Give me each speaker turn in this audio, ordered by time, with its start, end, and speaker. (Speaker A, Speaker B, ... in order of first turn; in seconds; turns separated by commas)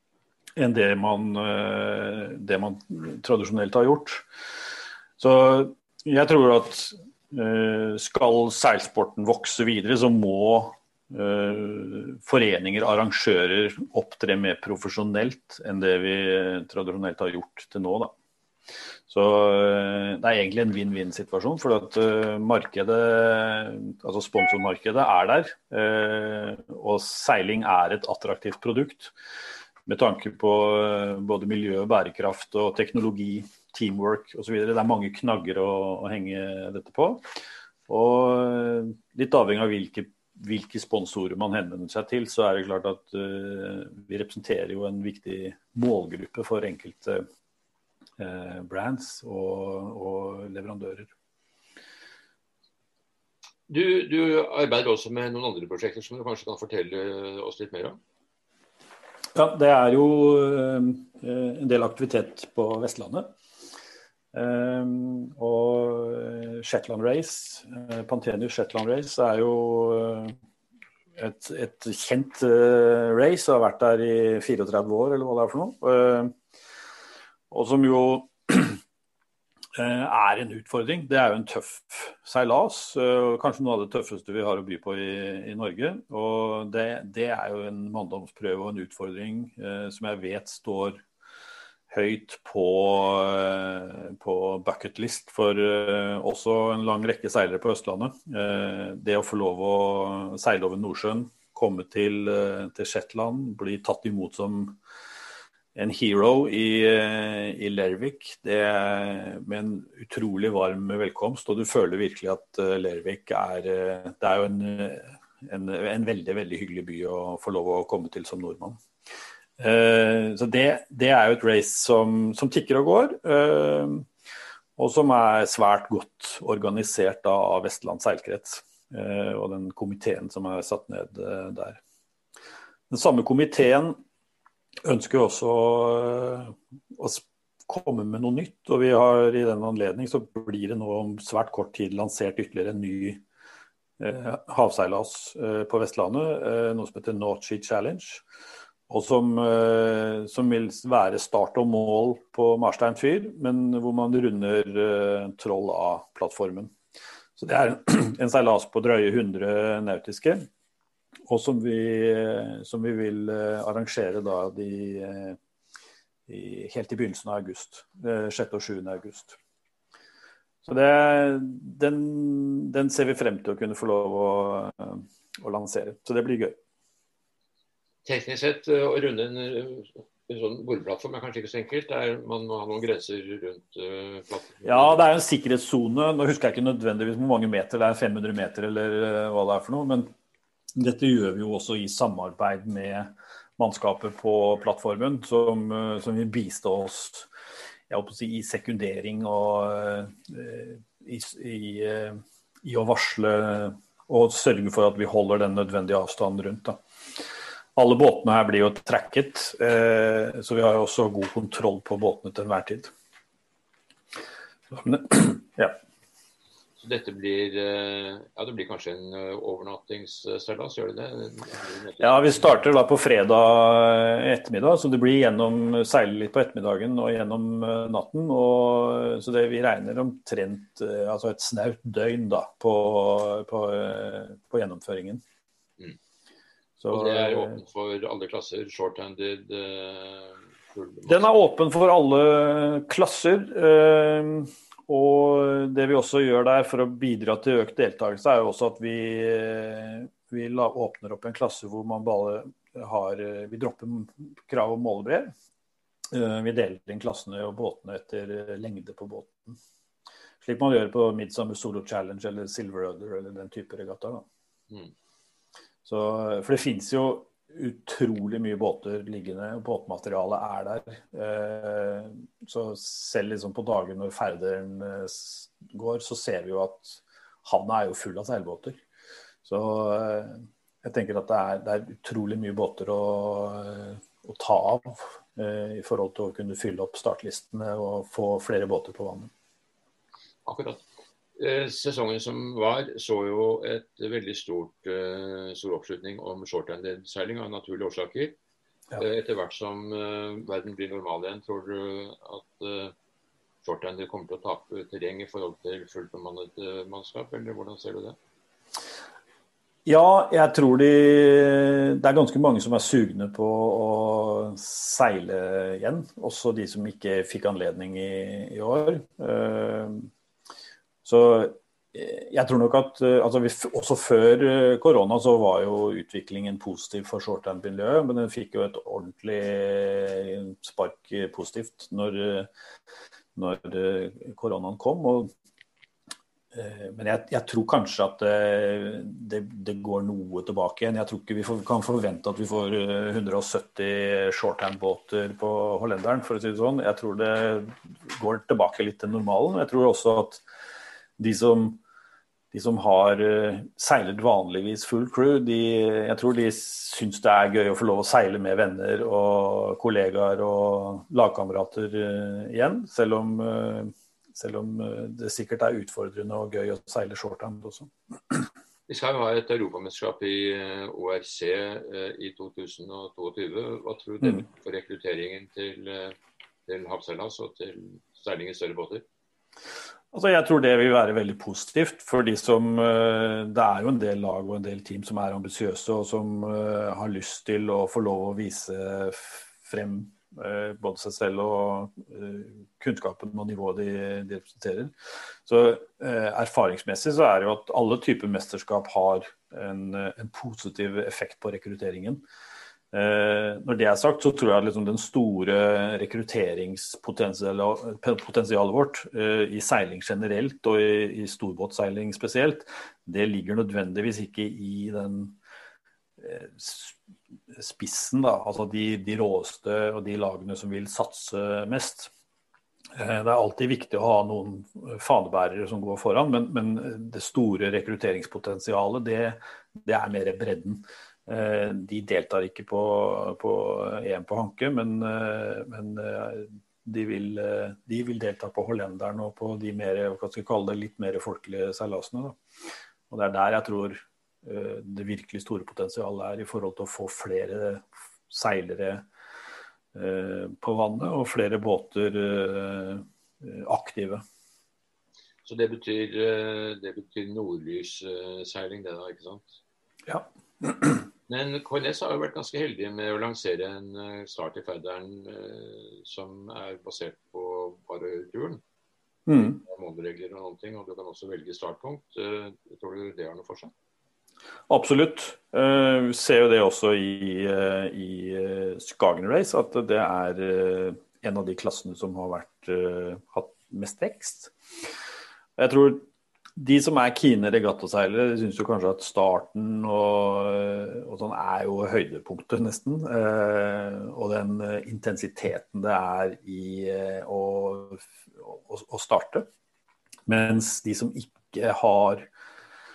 Speaker A: 0.6-4.3, Speaker A: 5.2-18.1, Speaker A: 19.1-29.1, Speaker A: 29.9-37.2, Speaker A: 37.9-47.2, Speaker A: 48.2-51.1, Speaker B: 53.7-58.0, Speaker A: 59.4-63.3, Speaker A: 64.3-70.3, Speaker A: 71.2-76.3, Speaker A: 77.5-78.8, Speaker A: 79.8-91.0, Speaker A: 91.9-104.8, Speaker A: 105.8-118.8, Speaker A: 119.6-124.1, Speaker A: 124.8-131.8, Speaker A: 132.9-134.0, Speaker A: 134.8-143.2, Speaker A: 144.0-148.2, Speaker A: 148.9-156.7, Speaker A: 157.4-160.4, Speaker A: 161.3-165.4, Speaker A: 166.3-169.4, Speaker A: 170.6-176.6, Speaker B: 178.1-185.0, Speaker A: 184.6-190.1, Speaker A: 190.8-197.3, Speaker A: 197.9-206.8, Speaker A: 207.8-212.9, Speaker A: 214.7-215.8, Speaker B: 216.8-222.6, Speaker A: 222.0-235.2, Speaker A: 236.8-237.6, Speaker B: 236.9-241.2, Speaker A: 241.1-255.3, Speaker A: 256.1-259.6, Speaker A: 260.4-264.2, Speaker A: 265.9-278.8, Speaker A: 279.4-289.3, Speaker B: 290.5-290.8, Speaker B: 291.4-298.4, Speaker B: 299.0-302.9, Speaker B: 303.6-308.2, Speaker A: 309.9-320.1, Speaker A: 321.0-332.5, Speaker A: 333.4-335.3, Speaker A: 336.5-350.4, Speaker A: 351.2-351.8, Speaker A: 352.5-368.4, Speaker B: 368.9-376.2, Speaker B: 376.7-379.1, Speaker A: 380.1-394.9, Speaker A: 395.4-402.2, Speaker A: 402.9-415.4, Speaker A: 416.2-417.0, Speaker A: 417.5-422.1, Speaker A: 423.0-442.4, Speaker A: 443.1-449.1, Speaker A: 449.9-454.2, Speaker B: 455.4-459.6, Speaker A: 460.1-461.1, Speaker B: 461.3-468.6, Speaker A: 469.3-469.6, Speaker B: 469.3-473.7, Speaker A: 474.7-484.5, Speaker A: 485.6-486.1, Speaker A: 486.6-499.5, Speaker A: 500.3-502.3